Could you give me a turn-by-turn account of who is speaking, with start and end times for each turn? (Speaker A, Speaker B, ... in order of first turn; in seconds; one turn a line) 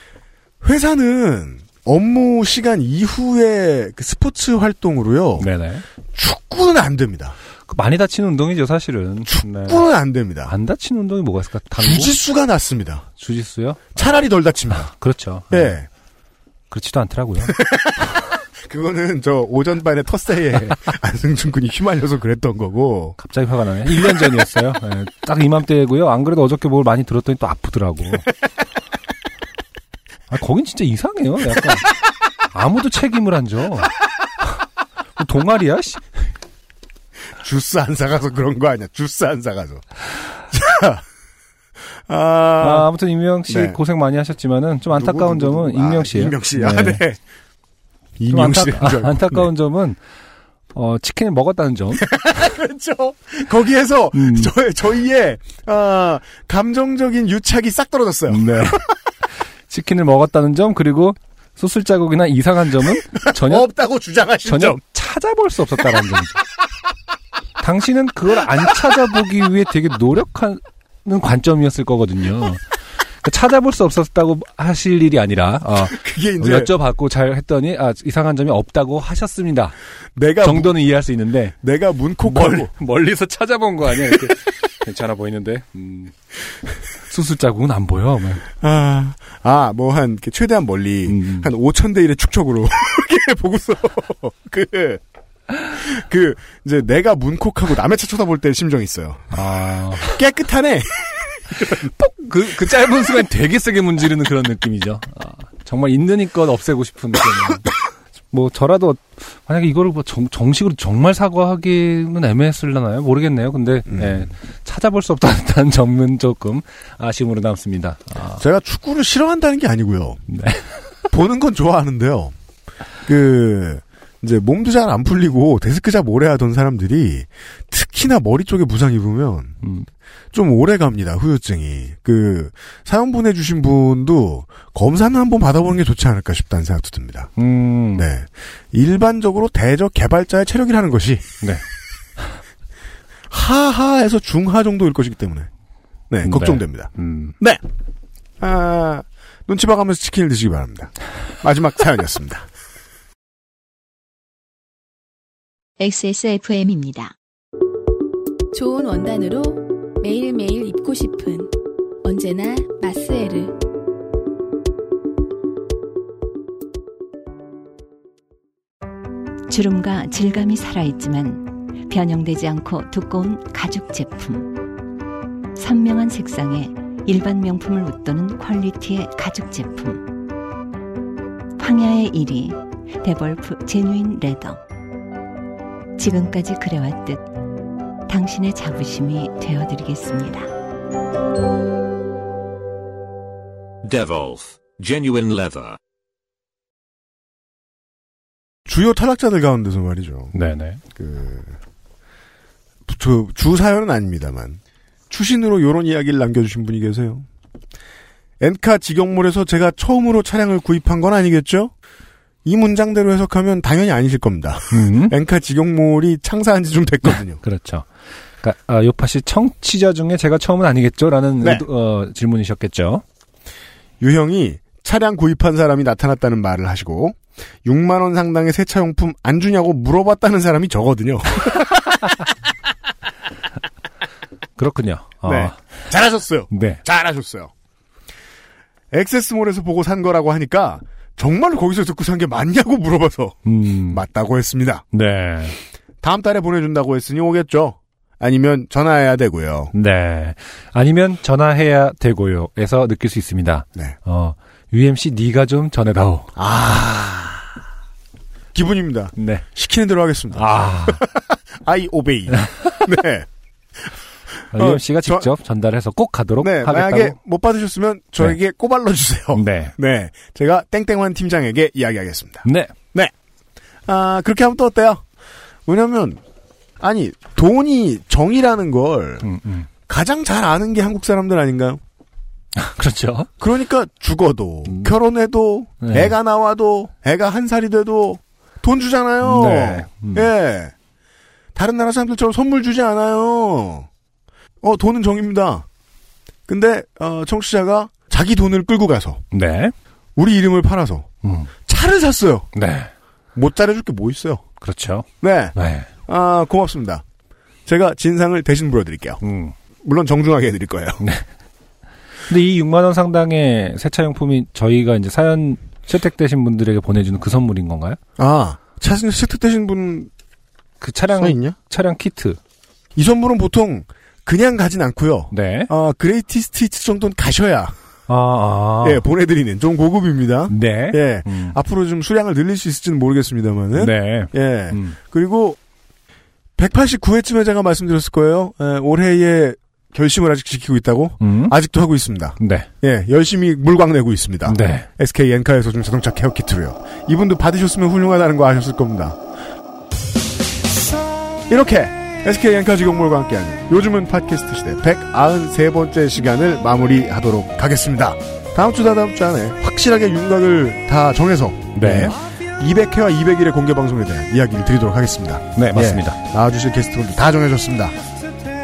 Speaker A: 0.6-5.5
Speaker B: 5.4-5.8
Speaker A: 6.1-7.3
Speaker B: 7.7-9.8
Speaker A: 9.3-10.5
Speaker B: 10.5-12.2
Speaker A: 11.8-13.1
Speaker B: 13.2-13.9
Speaker A: 13.9-14.9
Speaker B: 14.7-15.7
Speaker A: 15.5-15.9
Speaker B: 16.7-17.6
Speaker A: 17.5-23.2
Speaker B: 23.2-28.3
Speaker B: 30.3-31.9
Speaker B: 32.5-33.9
Speaker B: 35.2-36.2
Speaker A: 37.4-41.0
Speaker A: 42.1-42.9
Speaker B: 42.6-47.0
Speaker A: 43.5-43.8
Speaker A: 44.9-47.2
Speaker A: 48.2-49.5
Speaker B: 48.3-50.0
Speaker B: 50.7-52.1
Speaker A: 52.0-58.9
Speaker B: 54.1-54.5
Speaker B: 58.3-58.8
Speaker B: 59.7-63.7
Speaker A: 63.1-64.8
Speaker B: 64.5-66.4
Speaker B: 67.6-79.7
Speaker A: 75.9-76.7
Speaker A: 80.2-80.8
Speaker B: 80.4-81.5
Speaker A: 81.6-82.7
Speaker B: 82.2-86.1
Speaker B: 87.0-88.4
Speaker A: 88.6-95.0
Speaker B: 91.1-91.5
Speaker A: 95.6-101.9
Speaker B: 99.3-100.2
Speaker B: 101.7-107.7
Speaker B: 108.3-118.4
Speaker A: 113.9-114.3
Speaker A: 118.4-120.2
Speaker B: 120.3-120.9
Speaker A: 121.1-122.3
Speaker A: 123.1-129.6
Speaker B: 129.6-129.9
Speaker A: 130.3-137.3
Speaker B: 137.4-138.1
Speaker A: 137.9-141.2
Speaker A: 143.3-145.5
Speaker A: 146.1-147.6
Speaker B: 146.2-147.3
Speaker A: 148.4-152.5
Speaker C: 155.8-157.1
Speaker D: 158.5-163.6
Speaker C: 169.5-174.6
Speaker C: 175.6-180.1
Speaker C: 181.6-184.6
Speaker C: 186.0-187.2
Speaker C: 188.1-190.5
Speaker E: 193.8-195.8
Speaker A: 198.7-200.3
Speaker B: 200.3-200.8
Speaker A: 200.9-201.6
Speaker A: 202.9-207.3
Speaker A: 208.4-211.7
Speaker A: 212.4-217.4
Speaker B: 214.7-215.1
Speaker B: 217.1-217.9
Speaker B: 218.4-223.0
Speaker A: 224.0-232.1
Speaker B: 234.6-235.7
Speaker A: 235.2-237.5
Speaker B: 236.5-236.8
Speaker A: 238.9-244.8
Speaker B: 243.4-244.0
Speaker B: 244.9-245.6
Speaker A: 246.0-249.7
Speaker B: 249.7-256.3
Speaker A: 256.4-257.6
Speaker A: 258.5-263.3
Speaker B: 259.2-259.4
Speaker B: 260.4-261.0
Speaker A: 264.5-265.3
Speaker B: 264.5-267.1
Speaker A: 266.4-273.1
Speaker B: 269.3-269.7
Speaker B: 272.4-272.7
Speaker A: 273.9-275.0
Speaker A: 275.6-276.2
Speaker A: 276.8-279.2
Speaker B: 279.2-279.7
Speaker A: 279.9-281.8
Speaker B: 282.6-283.3
Speaker A: 283.4-290.7
Speaker B: 284.7-284.9
Speaker B: 285.8-286.1
Speaker B: 289.2-290.3
Speaker A: 291.6-293.9
Speaker A: 294.6-295.7
Speaker A: 296.5-299.2
Speaker B: 299.3-299.7
Speaker A: 300.1-301.1
Speaker B: 301.2-301.5
Speaker A: 301.6-302.5
Speaker B: 302.6-302.9
Speaker A: 303.4-304.4
Speaker B: 304.6-305.9
Speaker A: 305.2-307.0
Speaker A: 307.6-309.2
Speaker B: 309.2-309.6
Speaker A: 309.8-311.0
Speaker B: 312.3-318.0
Speaker A: 318.2-320.1
Speaker B: 320.8-322.4
Speaker A: 321.2-321.6
Speaker A: 322.9-327.7
Speaker B: 325.3-325.7
Speaker B: 328.1-329.0
Speaker A: 328.8-335.6
Speaker B: 330.5-331.6
Speaker B: 333.8-334.9
Speaker A: 336.6-349.2
Speaker B: 341.2-341.6
Speaker B: 342.4-342.7
Speaker B: 344.4-344.9
Speaker A: 351.5-367.9
Speaker B: 361.8-362.1
Speaker B: 365.6-366.2